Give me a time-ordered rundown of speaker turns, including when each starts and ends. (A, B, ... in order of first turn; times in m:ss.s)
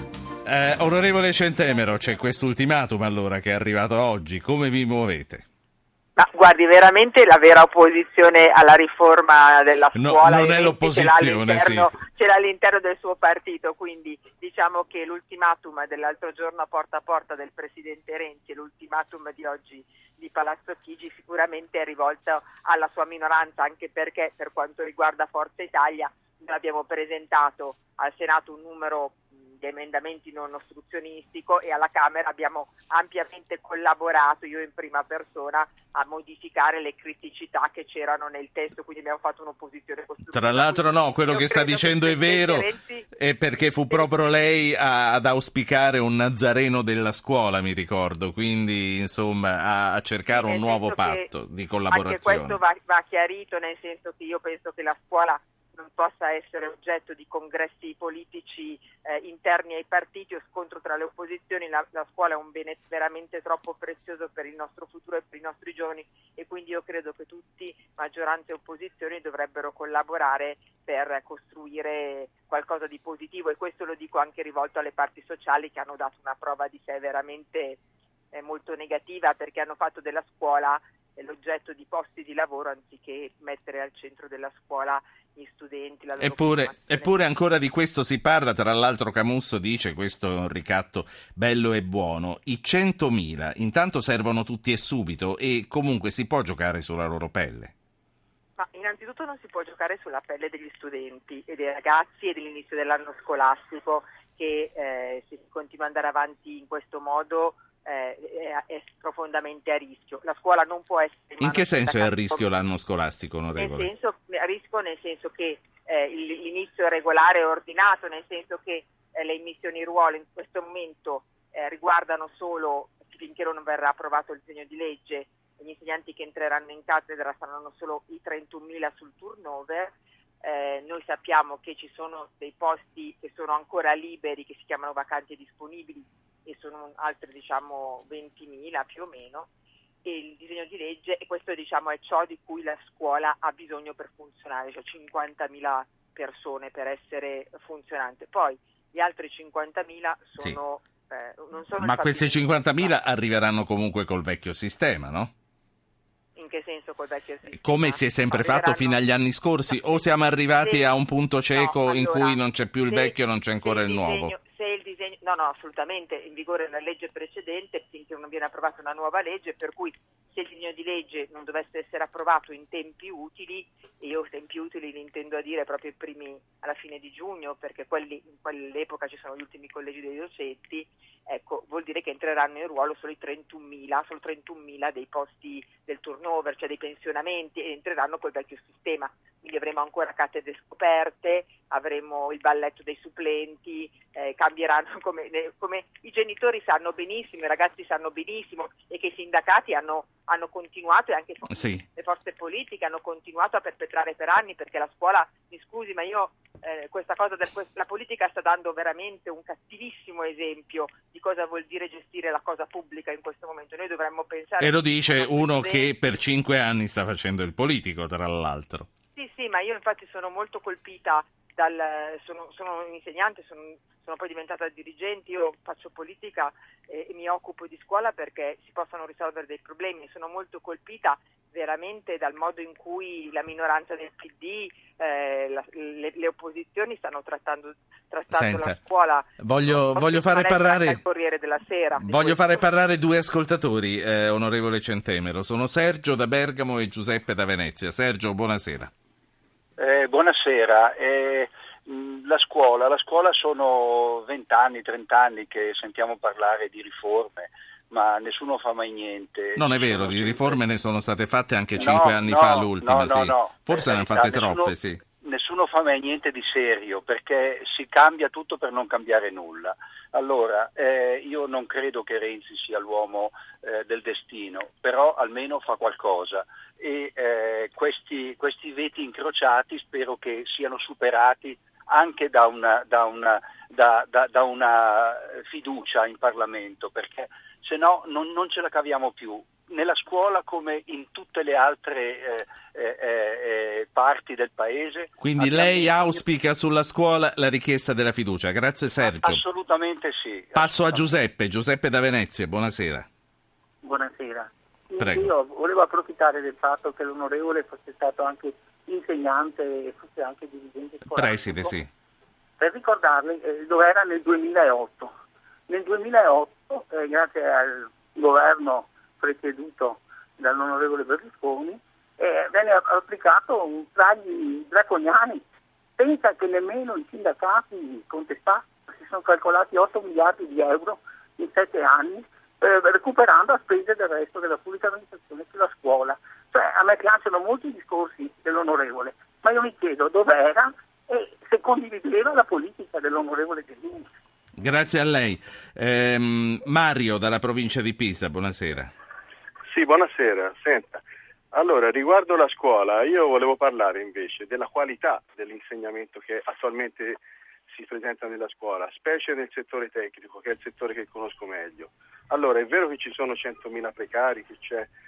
0:00.4-0:05.4 A
0:06.2-0:43.1 B
0:09.9-0:11.9 A
0:40.3-0:52.6 A
0:50.3-0:51.3 B
0:51.9-1:17.8 B
1:18.3-1:27.2 B
1:26.2-1:37.7 A
1:38.6-1:52.5 B
1:51.4-1:53.9 A
1:53.6-2:19.5 B
2:20.0-2:32.9 B
2:31.8-2:35.3 A
2:36.4-2:39.0 B
2:37.6-2:44.3 A
2:39.7-2:40.0 B
2:40.6-2:40.9 B
2:41.5-3:35.9 B
3:21.5-3:21.8 A
3:34.6-3:38.9 A
3:39.1-4:02.7 B
3:58.3-3:58.8 A
3:59.4-4:01.0 A
4:02.0-4:08.9 A
4:09.8-4:20.6 C
4:19.6-4:25.0 A
4:21.7-4:56.2 C
4:55.2-4:59.4 A
4:59.0-5:01.1 C
5:00.5-5:03.1 A
5:03.8-5:11.8 D
5:05.0-5:05.3 A
5:11.1-5:11.9 A
5:12.6-5:15.1 D
5:15.7-5:25.4 D
5:26.0-5:44.1 D
5:44.6-5:48.9 A
5:49.7-6:04.9 E